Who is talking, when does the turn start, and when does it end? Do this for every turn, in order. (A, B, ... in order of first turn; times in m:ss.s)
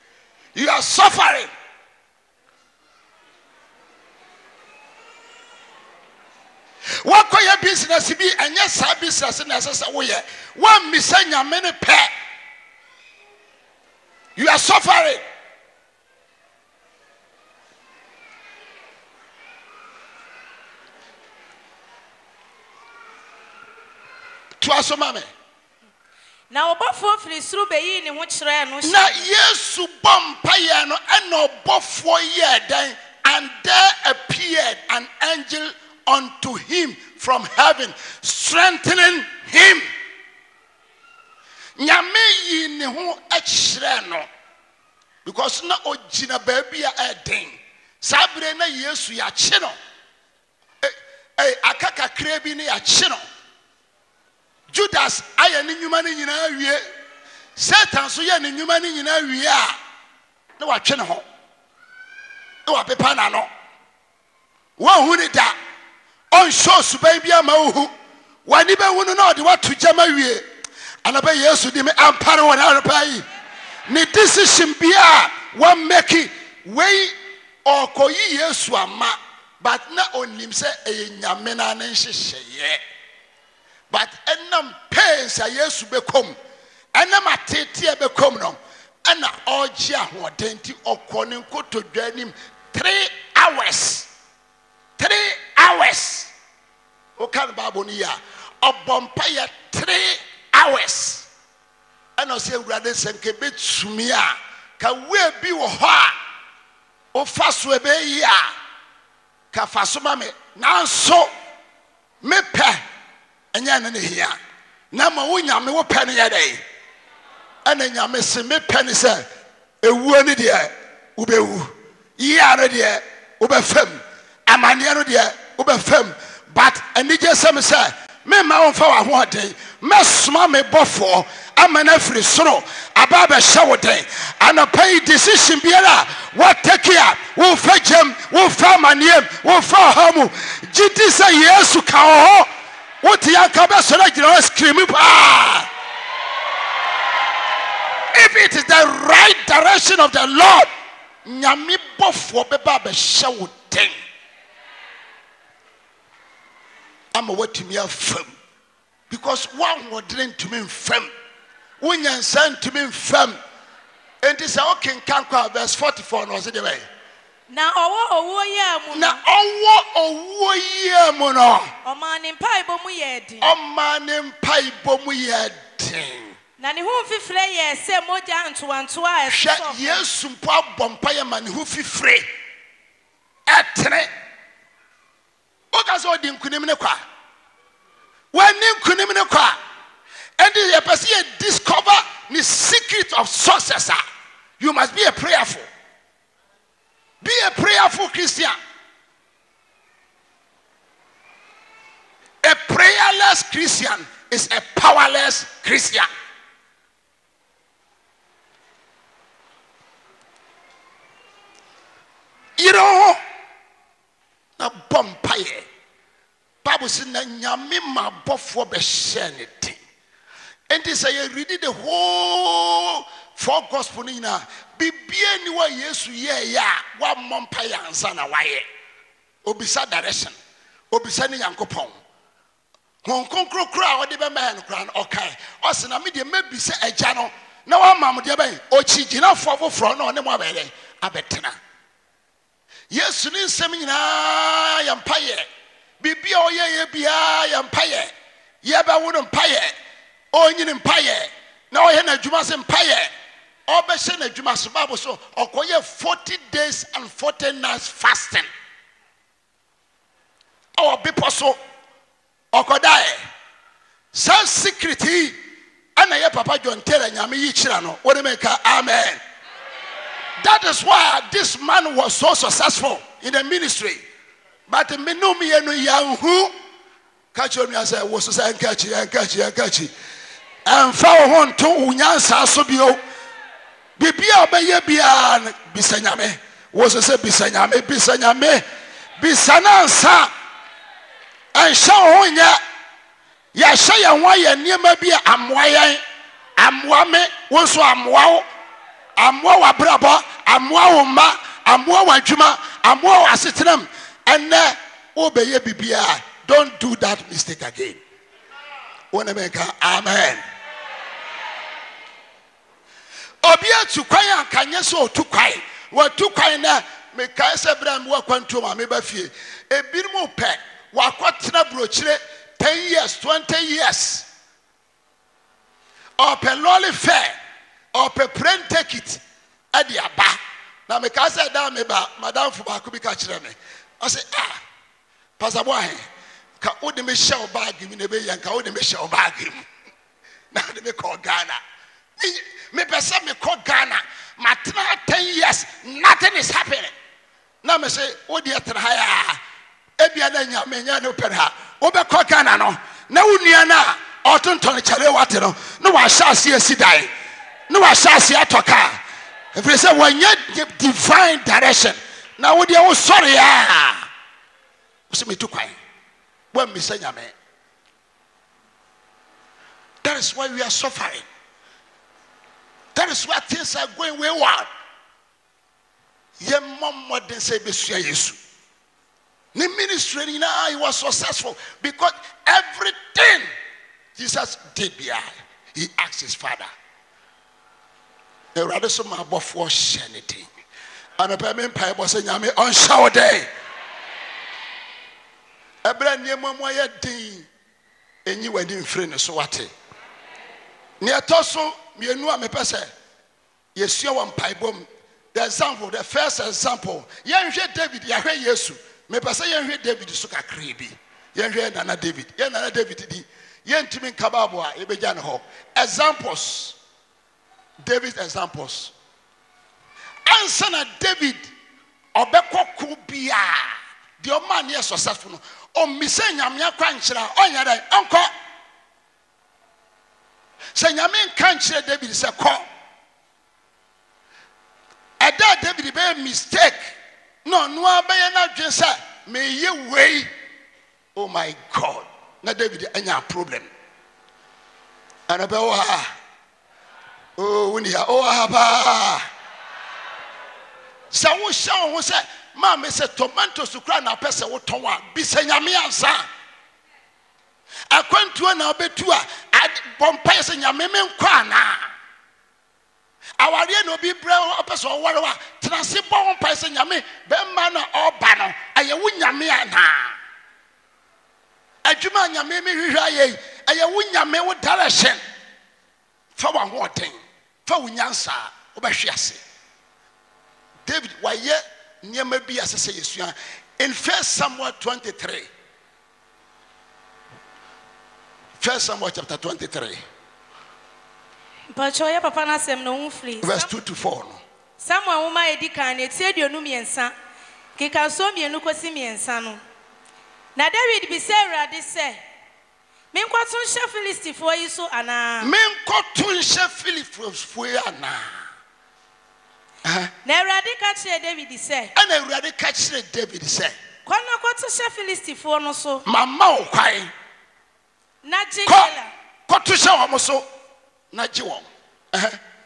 0:00.6-0:01.5 A
0:07.0-0:12.1 A
0:14.4-0:15.2 A
0:24.6-0:25.3 A
0:26.5-0:29.2 B
0:28.8-0:39.9 A
0:41.8-0:44.3 A
0:45.2-0:49.8 A
0:50.8-0:53.2 A
0:54.7-0:56.8 A
0:57.6-0:59.8 A
1:00.6-1:01.2 A
1:02.6-1:03.5 A
1:04.8-1:05.6 A
1:06.3-1:07.9 A
1:08.5-1:10.4 A
1:11.0-1:13.3 A
1:13.9-1:22.8 A
1:23.9-1:26.4 A
1:26.9-1:34.1 A
1:35.0-1:36.3 A
1:37.2-1:41.3 A
1:42.2-1:46.2 A
1:47.1-1:48.5 A
1:49.5-1:51.3 A
1:52.2-1:52.8 A
1:53.5-1:54.4 A
1:54.9-1:56.6 A
1:57.6-1:59.3 A
1:59.8-2:22.5 A
2:23.0-2:25.7 A
2:28.1-2:30.7 A
2:31.2-2:33.9 A
2:37.1-2:38.3 A
2:39.1-2:41.1 A
2:41.8-2:43.4 A
2:44.2-2:46.8 A
2:47.5-2:49.2 B
2:48.9-2:51.7 A
2:51.8-2:53.5 B
2:53.4-2:56.4 A
2:56.6-3:00.0 B
2:59.3-3:02.3 A
3:03.5-3:04.1 A
3:05.7-3:07.0 A
3:08.3-3:09.6 A
3:10.4-3:14.0 A
3:14.6-3:15.7 A
3:17.2-3:18.6 A
3:22.4-3:26.1 A
3:32.6-3:33.2 A
3:34.6-3:35.7 A
3:36.6-3:39.8 A
3:40.7-3:48.6 A
3:49.4-3:50.4 A
3:50.9-3:52.0 A
3:53.0-4:01.6 A
4:02.9-4:05.5 A
4:06.0-4:08.1 A
4:08.6-4:09.7 A
4:10.3-4:13.1 A
4:13.7-4:18.5 A
4:20.8-4:21.6 A
4:22.5-4:23.2 A
4:24.1-4:25.4 A
4:26.0-4:29.2 A
4:30.4-4:34.0 A
4:34.7-4:36.5 A
4:37.3-4:39.9 A
4:40.6-4:43.0 A
4:44.0-4:48.6 A
4:49.2-4:50.3 A
4:51.5-4:52.6 A
4:53.5-4:56.0 A
4:56.6-4:58.5 A
4:59.2-5:08.0 A
5:09.1-5:10.4 A
5:13.4-5:24.3 A
5:26.2-5:27.3 A
5:27.9-5:29.2 A
5:29.7-5:34.6 A
5:35.4-5:36.0 A
5:36.6-5:39.6 A
5:40.5-5:41.6 A
5:42.2-5:46.9 A
5:47.6-5:49.4 A
5:50.0-5:57.1 A
5:57.7-5:59.0 A
5:59.5-6:04.1 A
6:05.1-6:05.8 A
6:06.5-6:07.3 A
6:10.0-6:11.2 A
6:13.0-6:14.7 A
6:16.4-6:18.4 A
6:19.6-6:23.5 A
6:24.2-6:26.7 A
6:28.6-6:30.5 A
6:31.2-6:33.5 A
6:35.8-6:37.5 A
6:38.3-6:39.7 A
6:41.0-6:42.9 A
6:43.8-6:56.8 A
6:57.8-6:58.9 A
7:00.3-7:01.5 A
7:02.1-7:08.3 A
7:10.8-7:12.6 A
7:15.2-7:16.9 A
7:17.4-7:20.3 A
7:21.1-7:23.7 A
7:25.3-7:26.1 A
7:27.4-7:29.2 A
7:31.1-7:36.3 A
7:37.9-7:41.9 A
7:43.4-7:50.2 A
7:51.8-7:55.2 A
7:56.4-7:59.4 A
8:00.8-8:05.5 A
8:08.6-8:10.0 A
8:11.7-8:13.7 B
8:13.4-8:14.4 A
8:14.8-8:17.1 B
8:17.8-8:19.6 B
8:20.6-8:22.2 B
8:23.1-8:25.5 B
8:25.4-8:28.4 A
8:29.8-8:30.1 A
8:30.2-8:31.9 B
8:32.0-8:33.8 A
8:34.1-8:36.0 B
8:36.1-8:37.1 A
8:38.2-8:39.1 B
8:38.6-8:38.9 A
8:39.5-8:40.5 A
8:41.1-8:42.4 A